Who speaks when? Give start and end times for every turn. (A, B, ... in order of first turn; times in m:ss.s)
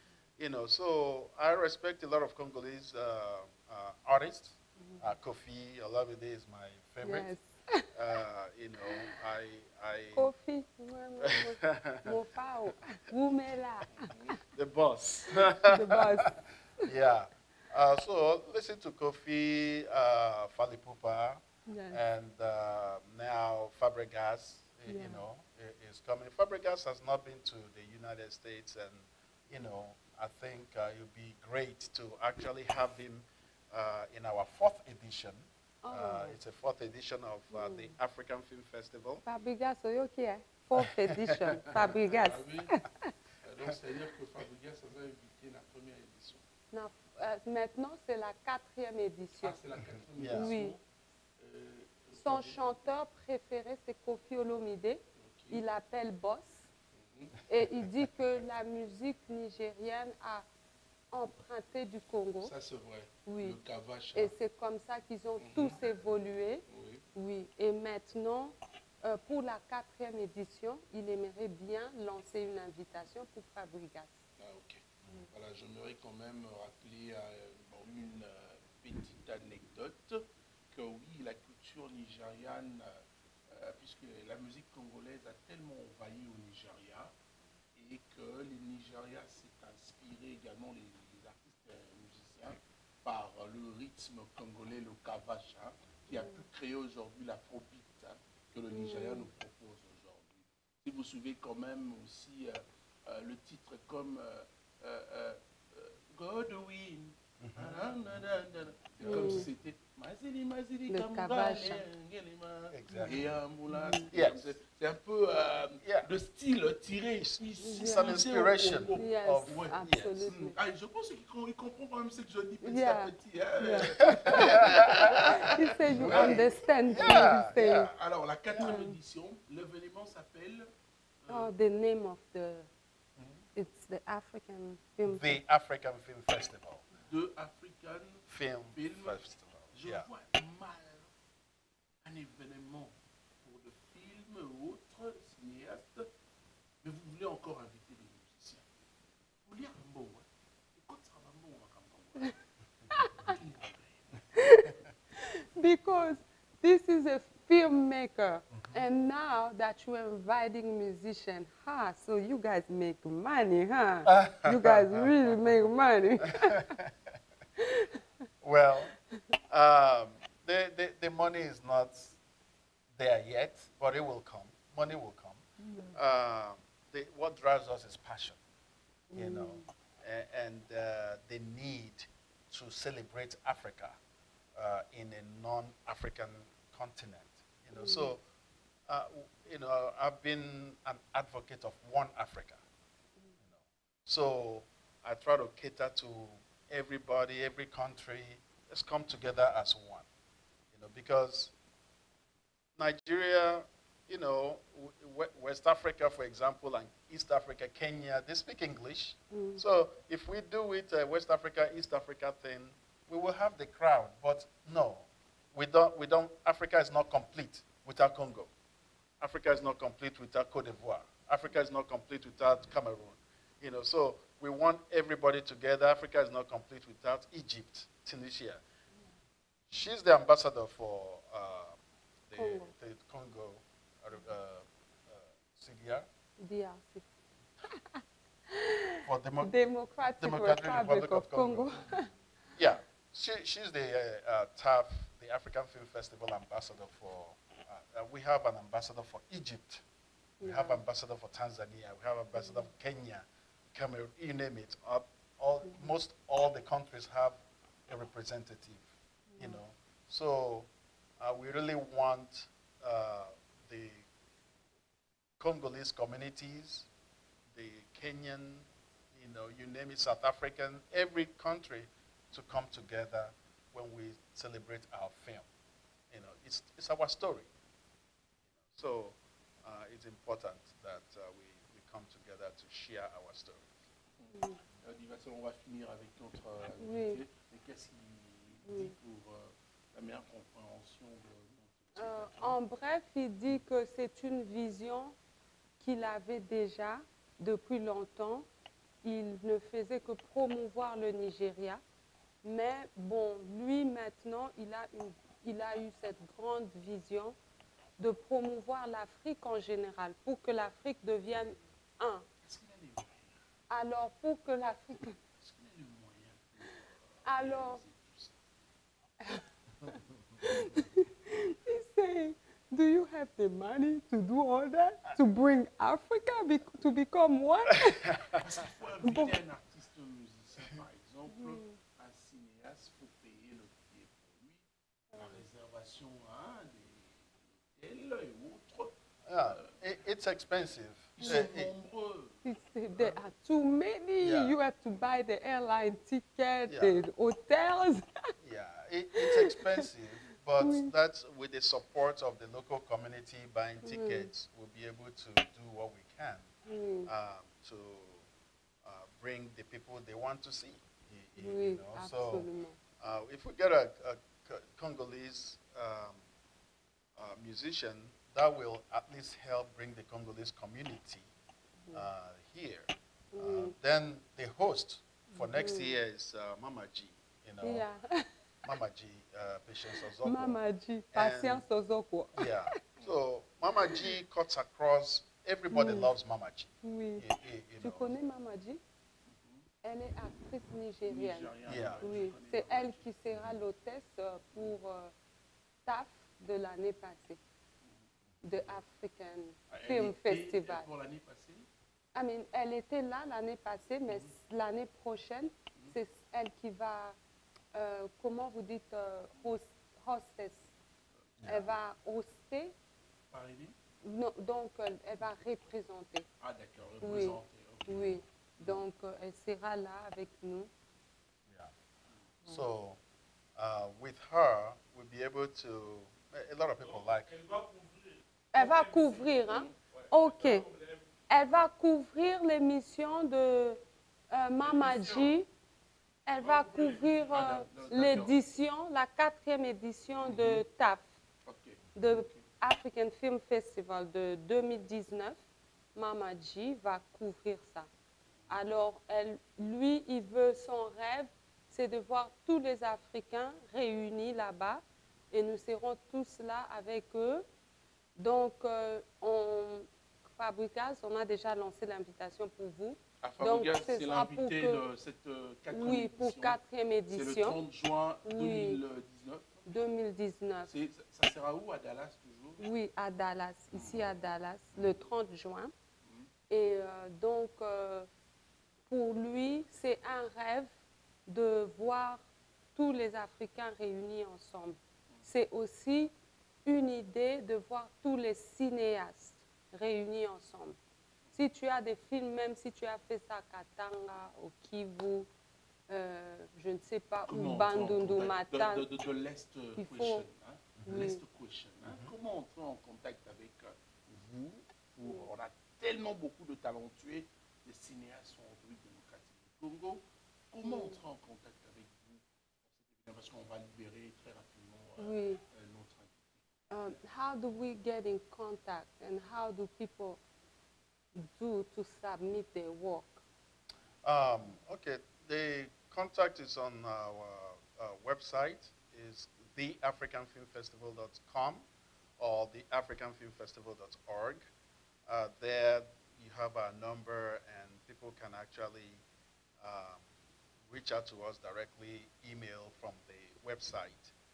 0:00.4-0:07.3 A
0:07.0-0:07.9 B
0:07.9-0:10.3 A
0:10.1-0:13.9 B
0:11.2-0:12.2 A
0:13.9-0:14.4 C
0:14.5-0:16.3 A
0:15.7-0:16.9 B
0:16.8-0:39.2 A
0:21.7-0:22.0 B
0:24.9-0:25.2 B
0:35.8-0:36.4 B
0:37.5-0:38.0 B
0:39.2-0:43.1 B
0:41.1-0:41.9 A
0:41.8-0:42.7 C
0:43.4-0:46.4 C
0:46.7-0:49.6 B
0:49.4-0:50.8 C
0:50.2-0:50.5 A
0:50.3-0:50.8 B
0:51.4-0:52.7 C
0:52.2-0:56.7 B
0:55.2-0:55.6 C
0:56.9-0:57.4 C
0:57.5-1:00.5 B
1:01.1-1:02.5 B
1:02.4-1:04.3 C
1:03.2-1:03.6 B
1:04.2-1:14.2 B
1:05.4-1:05.8 C
1:06.7-1:07.0 C
1:14.4-1:27.1 C
1:27.8-2:10.7 C
1:36.1-1:36.5 B
1:38.7-1:39.3 B
1:47.4-1:47.8 A
1:49.0-1:49.5 B
1:49.1-1:49.4 A
1:50.9-1:51.8 B
1:52.7-1:53.3 A
1:53.7-1:54.1 B
1:54.1-1:54.5 A
1:55.8-1:56.1 A
1:57.2-2:00.2 A
1:57.6-1:58.2 B
1:59.0-2:00.6 B
2:02.6-2:07.9 B
2:04.0-2:05.3 A
2:05.9-2:07.9 A
2:08.6-2:09.0 B
2:11.2-2:11.5 C
2:11.3-2:12.7 B
2:13.6-2:15.4 B
2:15.0-2:16.8 A
2:17.0-2:21.1 C
2:18.3-2:20.1 A
2:22.0-2:26.1 C
2:26.8-2:28.6 C
2:29.5-2:32.4 C
2:33.0-2:33.4 B
2:33.2-2:34.1 C
2:34.4-2:46.7 B
2:44.0-2:45.0 A
2:46.4-2:46.9 A
2:47.6-2:47.9 B
2:48.4-2:48.9 A
2:49.5-2:52.2 A
2:52.9-2:58.4 A
2:55.7-2:56.0 B
2:59.1-2:59.7 B
2:59.1-3:04.0 A
3:04.6-3:08.2 A
3:07.8-3:08.1 B
3:08.9-3:12.6 A
3:13.4-3:20.1 A
3:20.7-3:21.5 A
3:22.8-3:38.5 A
3:29.3-3:29.6 B
3:39.2-3:48.6 A
3:49.7-3:56.1 A
3:52.4-3:52.7 B
3:56.4-3:57.1 B
3:57.7-4:02.1 B
3:59.1-3:59.6 A
4:00.2-4:01.8 A
4:02.6-4:09.8 A
4:10.4-4:10.8 B
4:10.4-4:18.9 A
4:12.4-4:12.7 B
4:19.3-4:19.6 B
4:19.4-4:24.1 A
4:25.4-4:26.9 A
4:27.5-4:35.5 A
4:36.1-4:37.5 A
4:38.6-4:43.7 A
4:44.2-4:52.6 C
4:44.3-4:44.6 B
4:46.8-4:47.2 B
4:48.7-4:48.9 B
4:52.0-4:55.2 B
4:55.8-4:58.5 B
4:59.0-5:01.8 B
5:02.4-5:07.4 B
5:08.0-5:12.2 B
5:12.4-5:13.4 C
5:13.7-5:15.2 B
5:15.3-5:18.4 C
5:17.2-5:17.8 B
5:19.2-5:28.2 B
5:27.9-5:28.4 A
5:28.4-5:39.8 C
5:29.0-5:29.4 B
5:31.3-5:31.8 B
5:35.1-5:35.4 B
5:39.3-5:41.7 A
5:41.2-5:42.4 C
5:42.4-5:48.1 B
5:44.2-5:44.6 A
5:46.7-5:47.0 A
5:48.4-5:56.5 A
5:49.2-5:49.8 B
5:50.6-5:50.9 B
5:53.8-5:54.3 B
5:56.7-5:57.1 B
5:57.1-5:58.2 A
5:58.8-6:02.5 A
6:01.4-6:02.8 B
6:03.0-6:06.2 A
6:07.2-6:11.3 A
6:11.9-6:17.9 A
6:13.3-6:13.7 B
6:15.4-6:16.0 B
6:17.6-6:18.3 B
6:18.6-6:20.6 A
6:20.2-6:22.6 B
6:21.1-6:21.6 A
6:22.4-6:28.2 A
6:25.7-6:26.1 B
6:26.8-6:27.2 B
6:27.8-6:28.8 B
6:29.3-6:29.7 C
6:29.8-6:35.1 B
6:31.1-6:33.1 C
6:31.7-6:32.1 A
6:35.9-6:37.4 B
6:37.8-6:38.1 C
6:38.4-6:40.9 B
6:39.7-6:41.7 C
6:42.2-6:47.2 B
6:44.1-6:44.3 C
6:47.7-6:50.7 B
6:51.4-6:51.7 A
6:51.5-6:52.7 B
6:53.3-6:53.8 C
6:54.0-6:56.3 B
6:56.4-6:58.2 C
6:57.0-7:00.7 B
7:02.5-7:03.0 A
7:03.6-7:07.4 A
7:06.9-7:11.0 C
7:08.5-7:10.7 B
7:11.3-7:15.5 B
7:14.6-7:15.4 C
7:16.3-7:21.1 B
7:16.4-7:18.4 C
7:20.2-7:20.6 C
7:21.5-7:22.5 C
7:22.0-7:25.4 B
7:26.0-7:27.9 B
7:28.5-7:37.5 B
7:38.2-7:44.8 B
7:43.2-7:46.6 C
7:45.7-7:47.6 B
7:47.1-7:49.7 C
7:48.2-7:48.8 B
7:49.7-7:50.7 B
7:50.7-7:52.6 C
7:52.6-7:55.7 B
7:53.7-7:54.1 C
7:56.0-7:56.3 C
7:56.5-7:58.1 B
7:58.9-8:00.7 B
8:01.3-8:02.2 B
8:02.8-8:06.1 B
8:06.6-8:10.8 B
8:11.4-8:15.3 B
8:15.9-8:18.9 B
8:17.3-8:36.7 C
8:19.8-8:20.3 B
8:20.8-8:21.0 A
8:20.8-8:21.2 B
8:21.8-8:22.1 A
8:30.6-8:31.0 B
8:35.0-8:35.4 B
8:36.7-8:40.2 B
8:41.2-8:43.2 B
8:44.0-8:51.7 A
8:52.2-8:54.4 A
8:55.1-8:59.0 A
8:59.6-9:00.0 A
9:00.7-9:04.1 A